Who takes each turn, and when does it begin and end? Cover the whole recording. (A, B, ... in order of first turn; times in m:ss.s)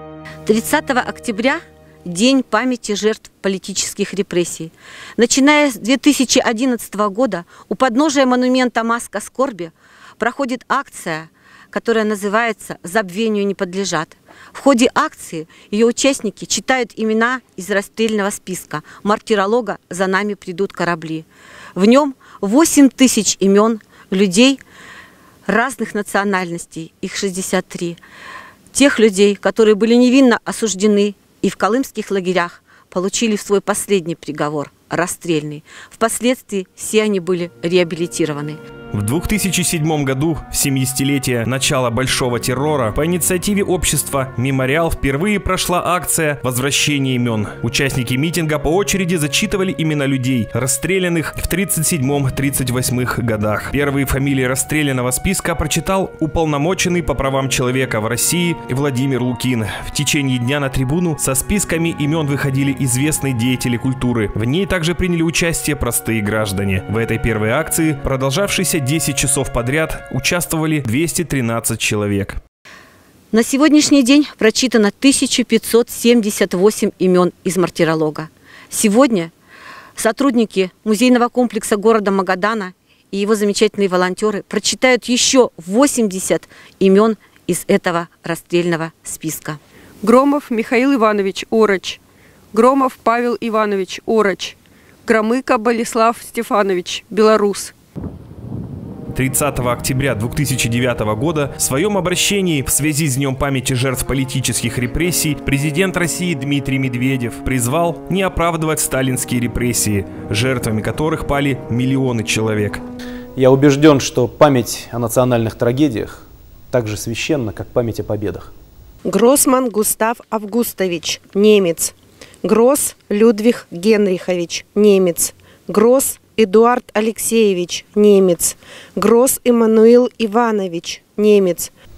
0:00.4-0:24.6 A
0:25.4-0:28.0 A
0:28.7-0:38.6 A
0:38.9-1:12.4 B
1:13.3-1:19.3 A
1:20.0-1:29.6 A
1:30.0-1:32.0 C
1:32.5-1:34.6 C
1:35.1-1:37.7 C
1:39.1-1:52.8 B
1:53.4-1:58.5 D
1:59.0-2:11.7 E